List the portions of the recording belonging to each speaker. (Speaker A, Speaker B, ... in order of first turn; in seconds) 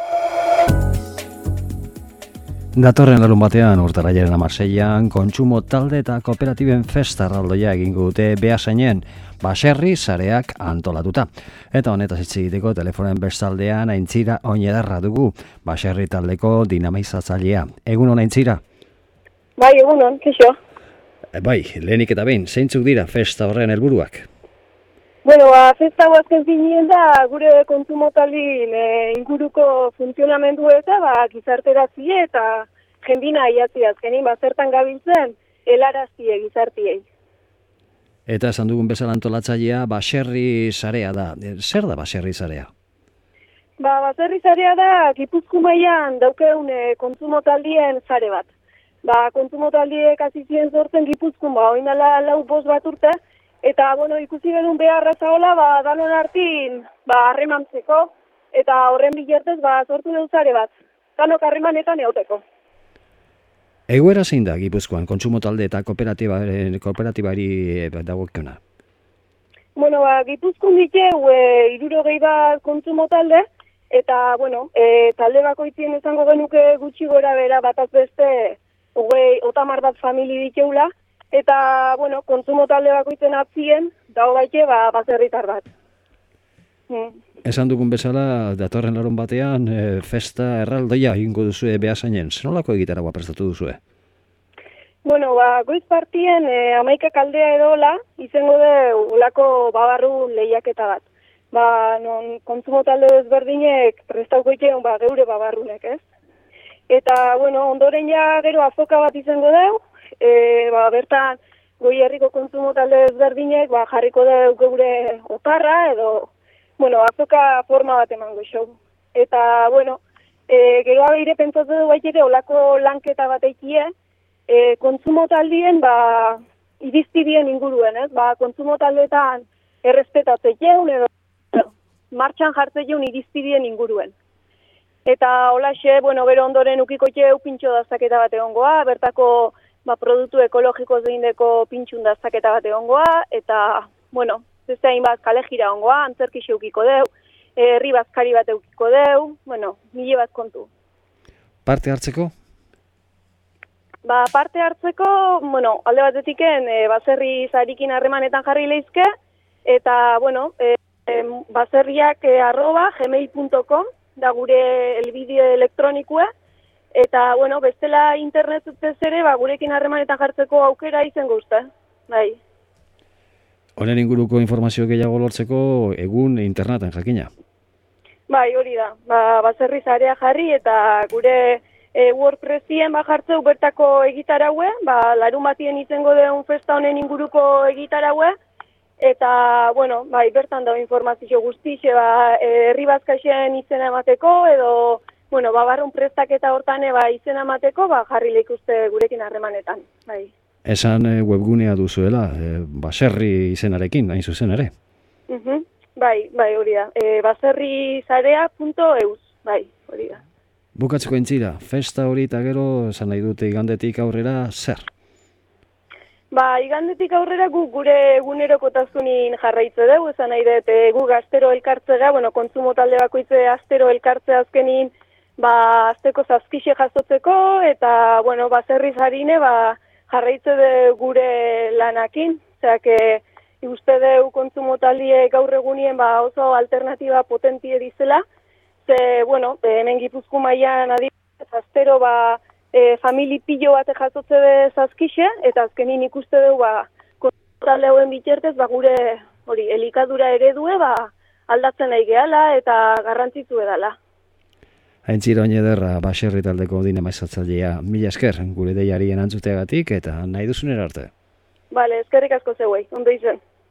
Speaker A: 2.8-18.6, 21.4-24.3, 38.3-42.7, 63.9-68.6, 87.5-93.8, 151.7-152.3, 173.8-177.3, 200.7-204.7, 210.8-214.9, 255.1-261.1
Speaker B: 19.6-20.6, 25.2-37.0, 43.8-48.5, 49.0-62.4, 69.8-85.7, 86.9-87.2, 95.0-106.0, 106.9-123.9, 124.5-134.2, 135.1-150.7, 154.0-159.1, 159.7-166.3, 166.9-172.4, 178.3-188.3, 189.0-200.3, 205.3-210.2, 216.3-238.2, 238.8-254.0, 261.7-263.4